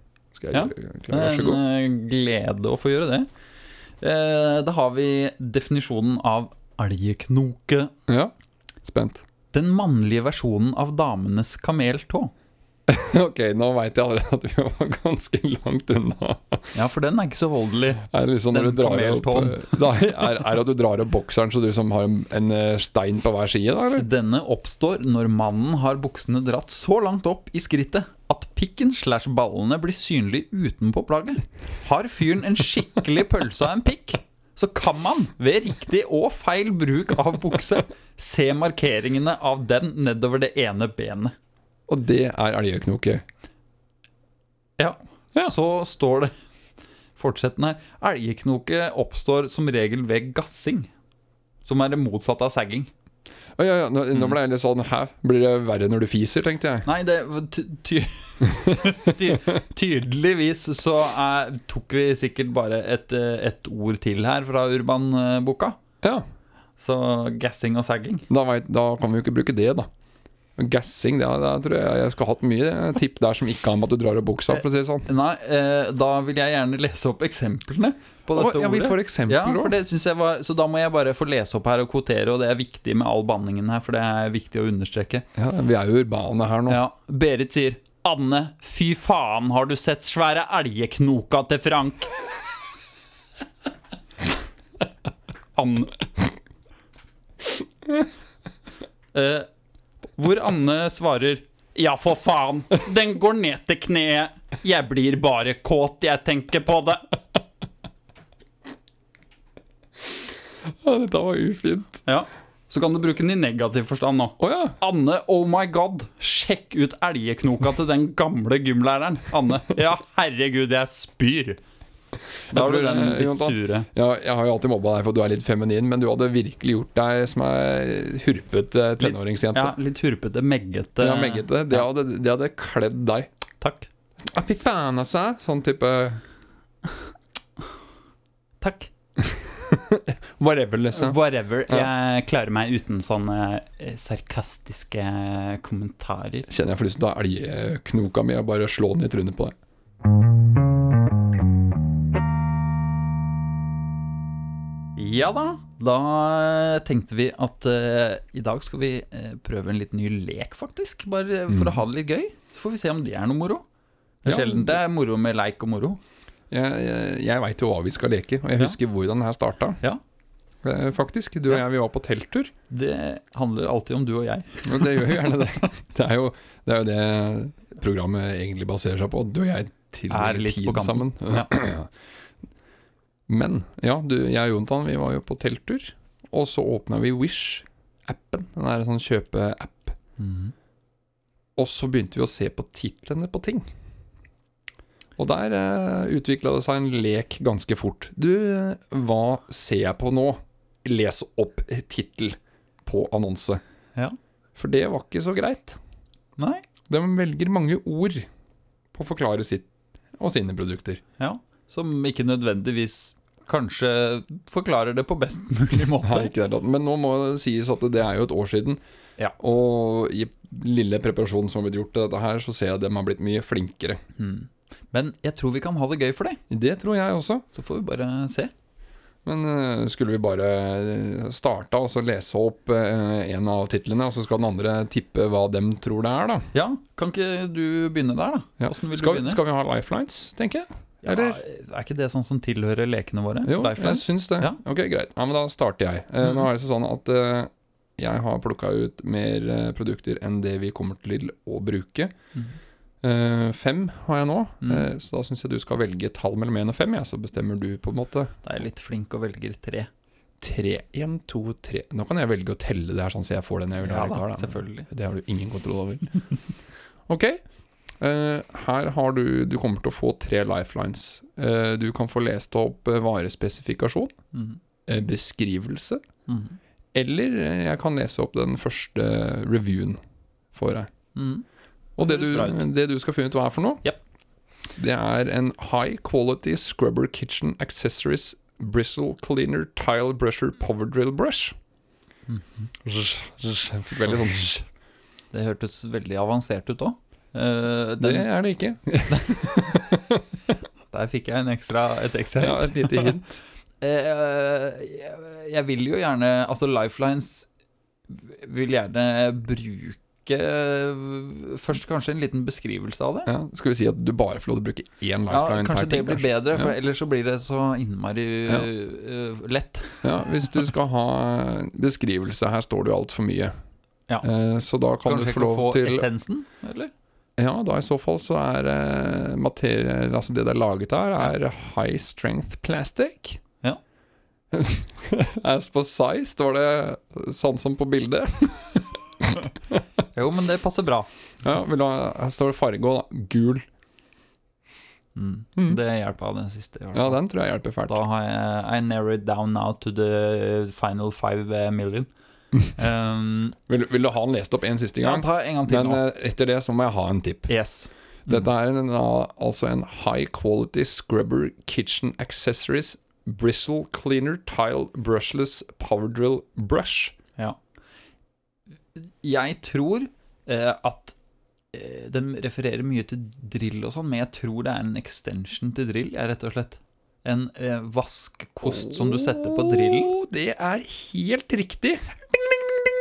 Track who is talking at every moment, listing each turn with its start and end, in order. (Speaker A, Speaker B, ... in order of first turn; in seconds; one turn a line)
Speaker A: 0.3-1.6
Speaker B: 0.5-3.3
Speaker B: 4.0-7.9
Speaker A: 8.8-9.2
Speaker B: 9.5-12.3
Speaker A: 12.9-16.7
Speaker B: 16.7-19.8
Speaker A: 18.1-24.1
Speaker B: 23.9-41.3
Speaker A: 41.9-43.2
Speaker B: 44.8-46.3
Speaker B: 47.2-50.9
Speaker B: 51.6-52.9
Speaker A: 53.6-56.9
Speaker B: 56.8-65.8
Speaker A: 58.6-59.4
Speaker B: 66.8-68.3
Speaker A: 68.3-69.9
Speaker A: 70.6-75.1
Speaker B: 74.5-85.2
Speaker A: 78.3-79.8
Speaker A: 85.3-86.8
Speaker B: 86.7-92.1
Speaker B: 95.5-96.0
Speaker B: 99.1-99.5
Speaker B: 100.2-107.1
Speaker A: 110.7-112.0
Speaker B: 112.0-121.6
Speaker A: 114.4-114.7
Speaker A: 122.5-129.7
Speaker B: 122.5-123.9
Speaker B: 129.0-131.8
Speaker A: 131.0-133.3
Speaker B: 133.6-133.9
Speaker A: 134.2-136.2
Speaker B: 138.6-138.9
Speaker A: 139.3-141.9
Speaker B: 140.9-146.5
Speaker A: 146.5-149.5
Speaker B: 155.0-163.6
Speaker A: 161.5-161.8
Speaker B: 164.2-166.0
Speaker A: 164.2-164.8
Speaker A: 166.5-169.8
Speaker A: 170.6-172.5
Speaker B: 172.7-175.2
Speaker A: 174.7-181.9
Speaker B: 180.1-181.5
Speaker A: 183.3-190.0
Speaker B: 190.2-190.5
Speaker A: 191.6-193.7
Speaker A: 195.2-203.6
Speaker A: 204.6-205.8
Speaker B: 206.4-206.6
Speaker A: 206.9-208.3
Speaker A: 208.9-209.7
Speaker A: 210.2-211.0
Speaker B: 211.2-216.3
Speaker A: 216.0-218.8
Speaker A: 219.4-224.0
Speaker B: 224.2-226.4
Speaker A: 226.5-227.4
Speaker B: 227.5-228.5
Speaker A: 229.2-236.5
Speaker B: 236.5-239.4
Speaker A: 238.6-241.4
Speaker B: 241.0-244.6
Speaker A: 243.4-252.1
Speaker A: 253.0-258.3
Speaker B: 258.4-259.9
Speaker A: 260.4-266.1
Speaker B: 263.8-264.9
Speaker A: 267.1-267.4
Speaker A: 268.0-274.1
Speaker B: 274.3-274.6
Speaker A: 274.9-276.0
Speaker B: 276.3-276.6
Speaker A: 276.9-280.0
Speaker A: 280.5-280.9
Speaker B: 281.1-281.4
Speaker B: 282.0-282.6
Speaker A: 282.0-283.8
Speaker A: 284.8-291.5
Speaker B: 292.3-292.7
Speaker A: 292.8-294.6
Speaker B: 295.3-298.3
Speaker A: 298.0-300.2
Speaker B: 299.1-299.6
Speaker B: 300.9-303.2
Speaker A: 302.4-303.4
Speaker B: 303.8-307.5
Speaker B: 308.1-313.3
Speaker A: 313.3-316.7
Speaker B: 315.3-320.5
Speaker A: 320.0-323.5
Speaker A: 324.2-326.1
Speaker B: 325.0-326.9
Speaker A: 327.4-333.4
Speaker A: 334.5-339.8
Speaker B: 340.1-341.1
Speaker A: 341.4-343.6
Speaker B: 345.1-347.2
Speaker A: 346.9-348.0
Speaker B: 347.9-352.1
Speaker B: 352.6-353.6
Speaker A: 353.7-357.5
Speaker B: 355.0-356.0
Speaker B: 357.5-358.4
Speaker A: 358.3-367.1
Speaker B: 369.0-371.1
Speaker B: 371.7-380.1
Speaker A: 378.6-382.1